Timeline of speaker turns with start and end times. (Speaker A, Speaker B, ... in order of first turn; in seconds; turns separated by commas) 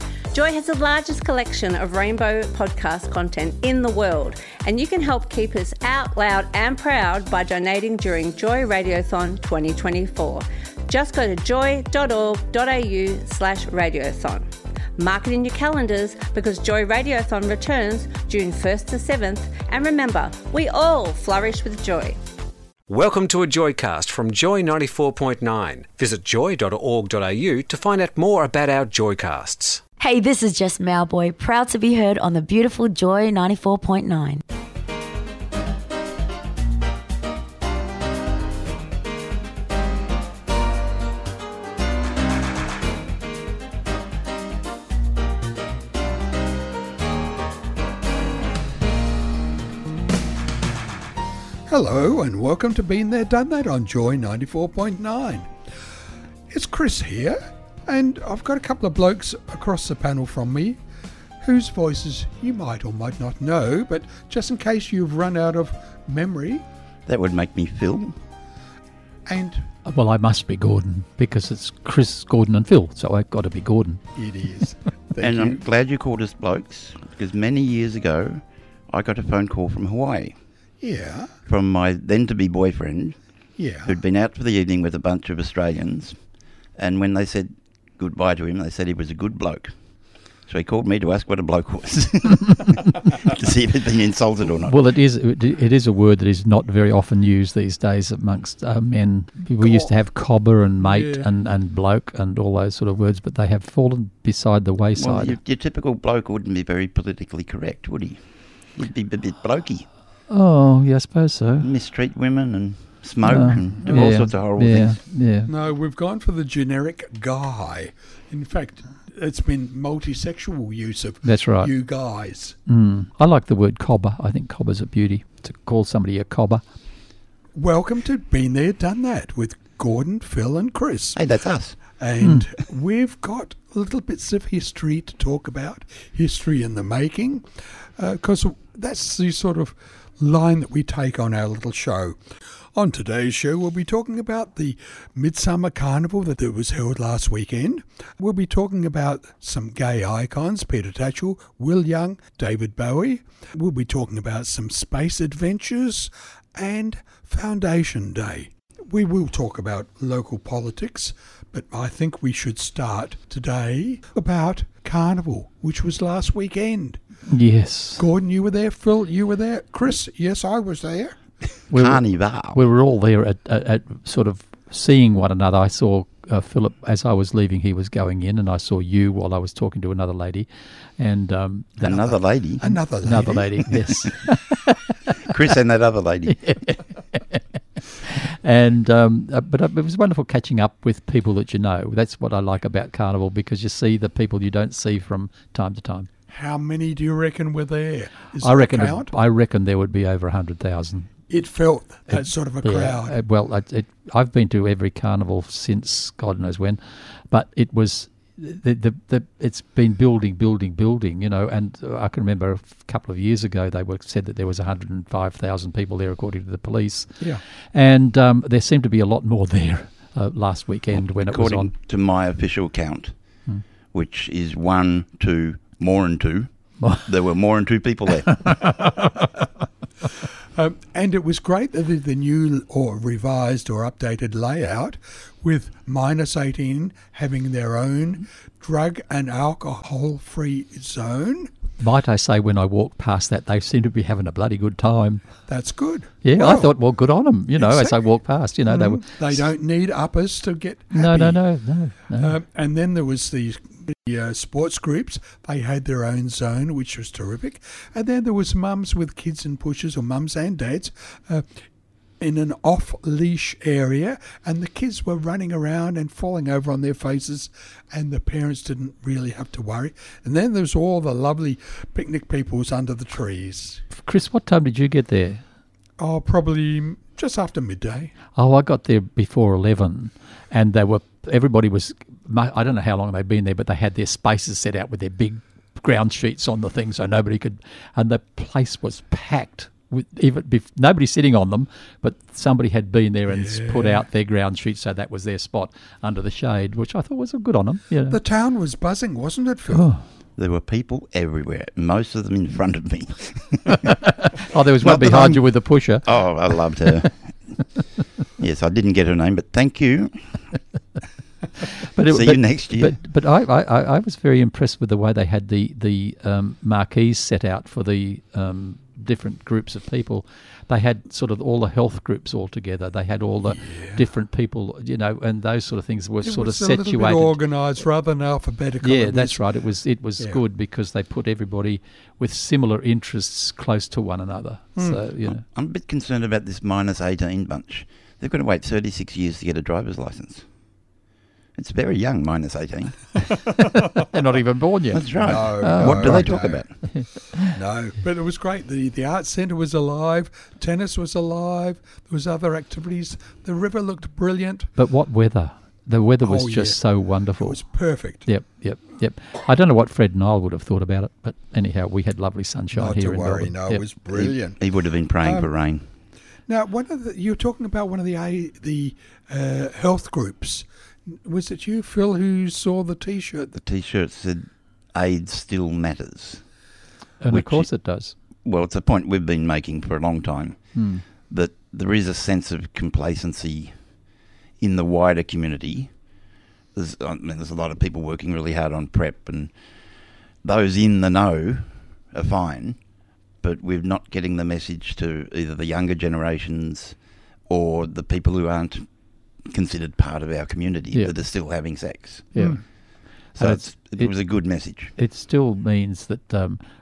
Speaker A: 0.3-22.2, Speaker B: 22.9-29.8, Speaker C: 30.0-34.4, Speaker D: 51.7-55.5, Speaker D: 56.5-60.8, Speaker D: 61.4-66.7, Speaker E: 67.1-68.2, Speaker D: 69.3-69.7, Speaker F: 69.8-74.0, Speaker D: 74.2-75.6, Speaker E: 75.2-80.3, Speaker D: 80.8-81.3, Speaker E: 81.5-83.2, Speaker D: 83.6-84.0, Speaker E: 83.9-86.2, Speaker E: 86.8-89.7, Speaker E: 90.5-94.8, Speaker F: 94.7-105.4, Speaker D: 99.6-99.9, Speaker D: 100.8-101.3, Speaker E: 105.0-108.2, Speaker E: 108.8-109.9, Speaker F: 110.3-111.7, Speaker E: 111.6-115.0, Speaker F: 113.2-115.5, Speaker D: 115.5-122.6, Speaker F: 121.2-121.7, Speaker F: 122.7-126.6, Speaker D: 127.5-131.2, Speaker E: 131.2-131.8, Speaker D: 131.8-142.2, Speaker F: 132.2-132.5, Speaker D: 142.8-167.0, Speaker F: 167.3-168.1, Speaker D: 168.0-171.2, Speaker E: 171.7-172.6, Speaker F: 171.7-182.2, Speaker E: 181.8-182.7, Speaker D: 182.6-183.8, Speaker F: 183.0-185.2, Speaker E: 185.2-186.4, Speaker F: 186.4-187.4, Speaker F: 188.0-196.1, Speaker D: 196.3-199.1, Speaker F: 198.4-201.1, Speaker D: 201.3-203.2, Speaker F: 202.1-206.8, Speaker F: 207.3-217.2, Speaker F: 217.7-221.7, Speaker E: 221.0-223.2, Speaker E: 223.9-228.7, Speaker D: 230.6-241.5, Speaker F: 241.8-245.2, Speaker D: 245.5-246.7, Speaker F: 246.2-249.3, Speaker D: 247.6-248.0, Speaker D: 248.7-251.4, Speaker F: 250.9-252.4, Speaker D: 252.1-261.5, Speaker D: 262.2-273.8, Speaker F: 273.9-275.4, Speaker D: 276.0-278.1, Speaker F: 278.4-298.2, Speaker D: 293.3-294.0, Speaker D: 298.1-299.9, Speaker F: 299.7-300.1, Speaker E: 300.4-304.0, Speaker F: 303.7-306.1, Speaker E: 304.8-305.5, Speaker E: 306.0-307.3, Speaker E: 308.4-310.4, Speaker F: 311.8-327.4, Speaker E: 312.1-312.9, Speaker D: 323.5-324.0, Speaker D: 326.2-329.4, Speaker F: 328.8-335.4, Speaker E: 335.4-340.5, Speaker E: 341.6-343.4, Speaker F: 343.6-347.6, Speaker E: 344.9-346.7, Speaker D: 345.2-346.6, Speaker D: 347.5-354.7, Speaker F: 354.8-357.6, Speaker D: 356.2-356.8, Speaker D: 357.4-358.3, Speaker F: 358.3-363.8, Speaker D: 362.7-364.6, Speaker E: 364.1-365.8, Speaker D: 365.2-365.5, Speaker D: 366.5-373.5, Speaker E: 373.6-376.4, Speaker F: 377.2-378.2, Speaker E: 377.3-377.7, Speaker E: 378.4-380.7, Speaker F: 380.8-381.0, Speaker E: 381.3-383.8, Speaker E: 384.6-385.9, Speaker E: 386.8-389.5, Speaker E: 390.4-392.8, Speaker E: 393.4-397.0, Speaker E: 397.5-398.9, Speaker E: 399.5-402.4, Speaker F: 402.3-402.6, Speaker E: 403.4-405.0, Speaker F: 403.4-404.1, Speaker F: 405.0-406.6